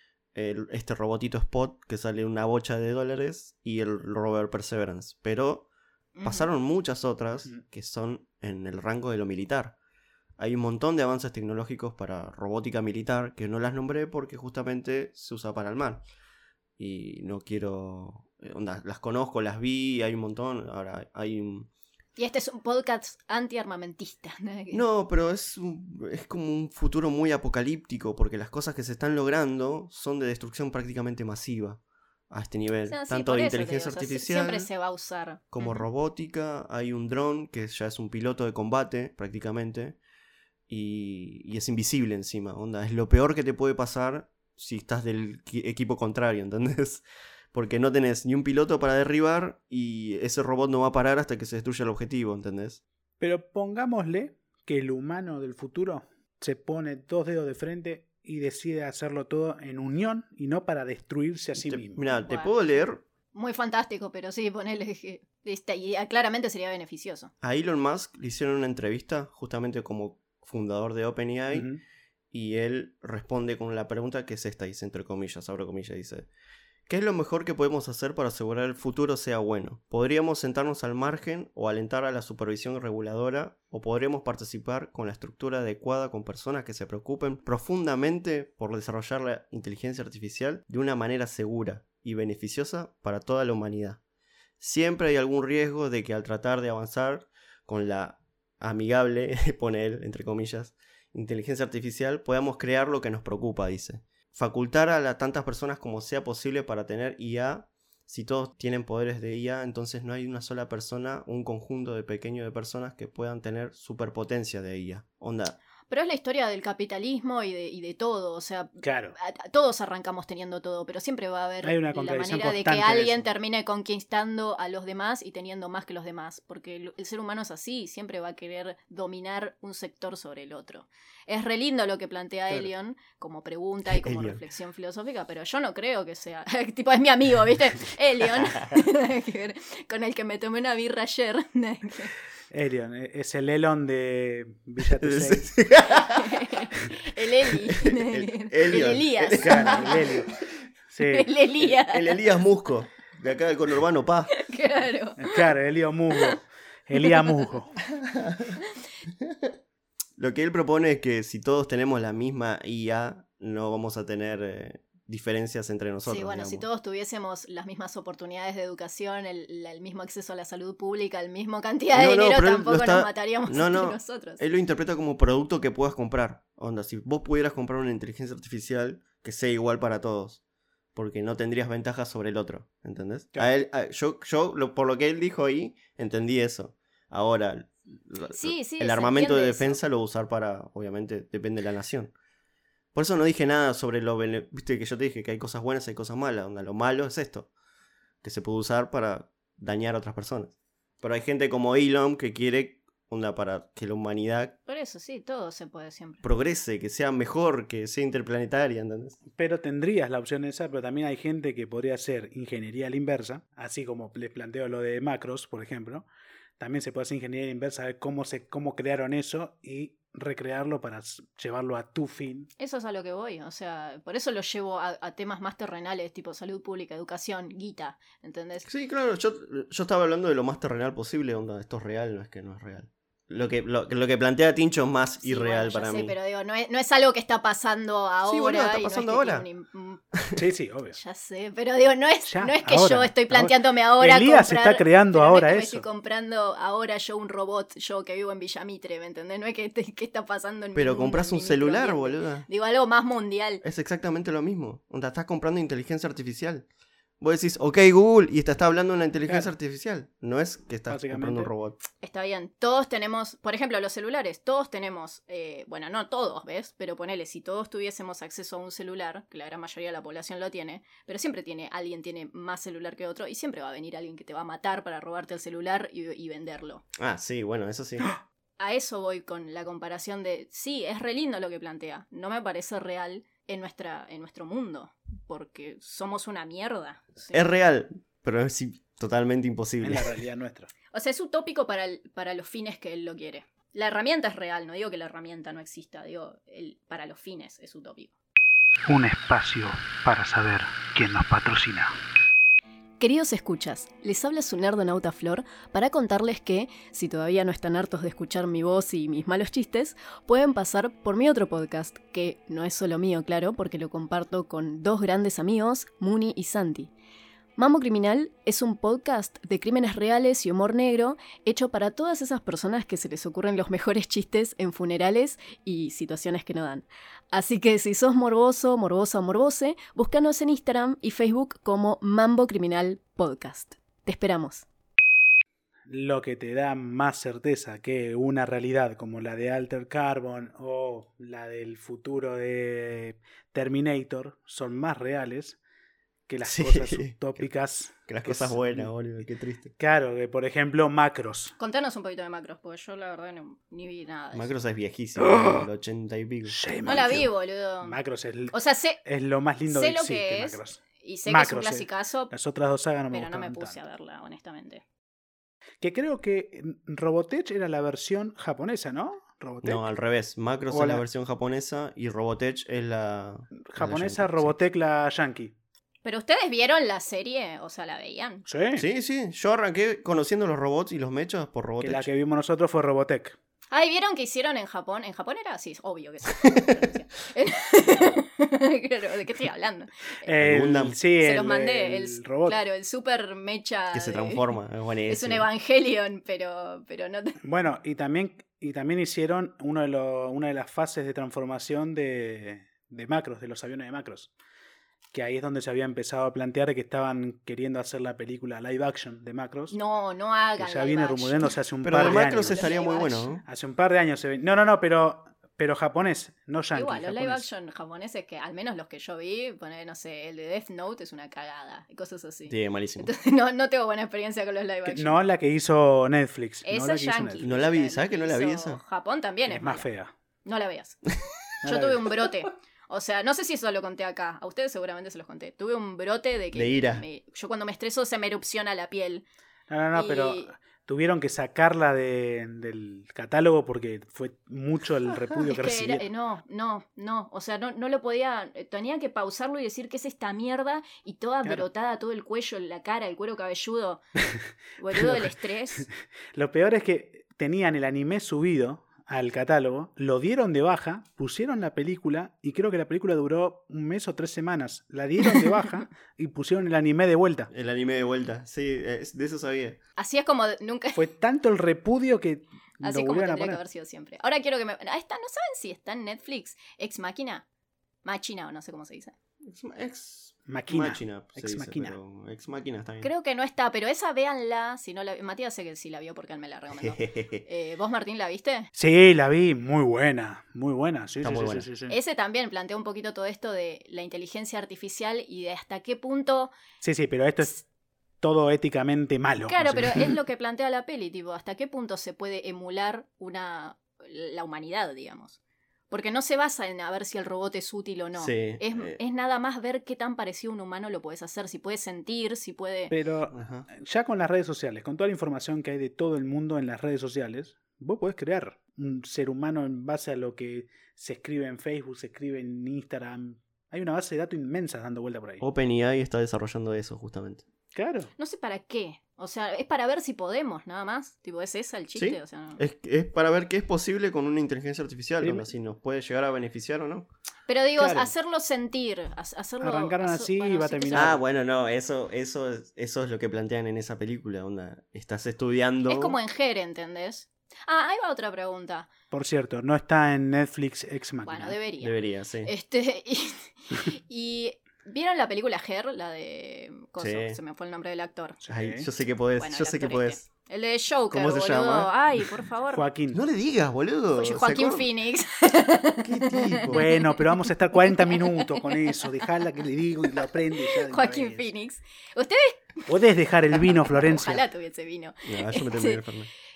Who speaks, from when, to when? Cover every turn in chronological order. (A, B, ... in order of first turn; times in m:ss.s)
0:00.3-0:05.6 A
0:06.2-0:06.5 B
0:06.2-0:09.7 A
0:10.4-0:16.0 A
0:16.8-0:21.7 A
0:22.2-0:24.8 B
0:24.7-0:34.7 A
0:32.9-0:35.9 B
0:35.5-0:40.0 A
0:40.7-0:52.8 A
0:53.2-1:02.0 C
1:01.6-1:03.0 A
1:02.2-1:02.8 B
1:03.3-1:07.3 B
1:07.4-1:11.7 A
1:11.5-1:11.8 C
1:12.3-1:16.3 A
1:16.9-1:34.0 A
1:34.6-1:55.6 A
1:55.9-2:22.1 B
1:58.8-1:59.2 C
2:01.6-2:03.2 C
2:13.9-2:14.4 A
2:22.5-2:25.5 C
2:25.0-2:26.4 A
2:25.9-2:29.9 B
2:27.8-2:30.1 A
2:29.4-2:30.3 C
2:30.9-2:31.3 C
2:31.1-2:32.2 B
2:31.6-2:34.3 A
2:34.3-2:35.4 B
2:35.2-2:37.8 C
2:37.0-2:37.3 B
2:38.0-2:38.6 A
2:39.2-2:39.5 A
2:40.2-2:46.6 A
2:46.0-2:54.4 B
2:51.9-3:00.4 A
3:00.9-3:12.1 A
3:08.3-3:09.8 B
3:12.9-3:17.5 A
3:18.2-3:24.6 A
3:24.7-3:26.2 B
3:26.2-3:29.2 A
3:29.4-3:36.1 C
3:36.6-3:42.5 C
3:42.6-3:48.7 B
3:48.6-3:56.2 A
3:55.2-4:00.0 B
3:58.2-3:59.5 A
4:00.1-4:00.4 A
4:00.4-4:01.0 C
4:00.9-4:13.6 B
4:02.3-4:05.8 C
4:10.7-4:12.4 A
4:13.6-4:16.6 A
4:17.2-4:21.8 A
4:19.3-4:19.5 C
4:20.9-4:21.5 C
4:22.0-4:36.8 B
4:37.0-4:38.1 A
4:38.6-4:47.4 B
4:47.3-4:50.1 A
4:49.8-4:50.7 C
4:50.9-4:58.1 B
4:58.9-5:01.9 C
5:03.0-5:16.9 B
5:17.6-5:34.6 B
5:35.9-5:45.6 C
5:46.3-5:48.9 C
5:46.4-5:47.4 A
5:48.1-5:49.7 A
5:49.8-5:51.5 C
5:51.6-5:54.5 B
5:54.3-5:57.2 A
5:55.2-5:55.6 C
5:56.5-5:57.3 C
5:56.8-5:58.0 B
5:57.8-6:03.8 C
5:58.5-5:59.0 B
5:59.7-6:02.3 B
6:03.1-6:04.8 B
6:05.8-6:09.8 C
6:09.6-6:14.5 A
6:10.7-6:11.0 C
6:13.6-6:15.5 C
6:16.0-6:18.4 B
6:18.5-6:18.8 C
6:18.8-6:22.1 A
6:21.8-6:23.4 C
6:23.7-6:30.3 B
6:26.4-6:26.7 A
6:30.2-6:32.6 C
6:30.4-6:31.0 A
6:31.2-6:34.6 B
6:33.9-6:35.5 A
6:35.1-6:37.4 B
6:37.4-6:44.3 C
6:45.1-6:49.7 C
6:49.7-6:53.3 B
6:50.6-6:52.7 C
6:51.8-6:53.4 A
6:53.4-6:57.4 C
6:56.7-7:05.2 B
7:02.5-7:03.1 A
7:04.9-7:07.5 C
7:06.6-7:09.9 B
7:07.4-7:08.8 A
7:09.5-7:10.1 C
7:10.4-7:11.0 B
7:11.6-7:19.2 B
7:11.6-7:12.0 C
7:16.5-7:17.0 A
7:19.7-7:26.0 C
7:19.9-7:20.5 B
7:25.5-7:34.0 B
7:34.8-7:35.9 B
7:34.9-7:47.5 C
7:47.5-7:49.8 A
7:50.0-7:51.0 B
7:50.9-7:53.6 C
7:52.8-7:57.4 B
7:58.0-7:59.1 B
7:59.4-8:03.1 A
8:00.5-8:02.0 C
8:03.0-8:08.7 B
8:06.7-8:07.4 A
8:08.7-8:12.0 C
8:11.2-8:11.7 A
8:11.9-8:16.5 B
8:16.8-8:17.6 C
8:18.2-8:20.2 C
8:19.5-8:25.4 B
8:25.9-8:32.9 B
8:28.2-8:29.0 A
8:32.9-8:45.4 C
8:33.3-8:33.6 A
8:45.4-8:47.4 A
8:47.7-8:48.1 C
8:48.2-8:52.6 B
8:51.9-8:57.1 A
8:55.2-8:55.5 C
8:57.5-9:01.2 B
8:57.8-8:58.1 C
8:59.6-9:01.2 C
9:00.9-9:06.2 A
9:05.8-9:08.9 B
9:09.1-9:11.6 C
9:11.2-9:18.4 B
9:11.8-9:12.5 A
9:17.0-9:17.4 A
9:18.4-9:18.9 C
9:18.5-9:20.2 A
9:19.4-9:22.8 B
9:21.1-9:21.9 A
9:22.7-9:23.2 C
9:23.1-9:24.8 A
9:24.1-9:29.0 B
9:26.0-9:26.8 A
9:26.7-9:31.5 C
9:30.6-9:32.9 B
9:32.9-9:34.4 C
9:33.7-9:36.0 B
9:35.2-9:36.3 A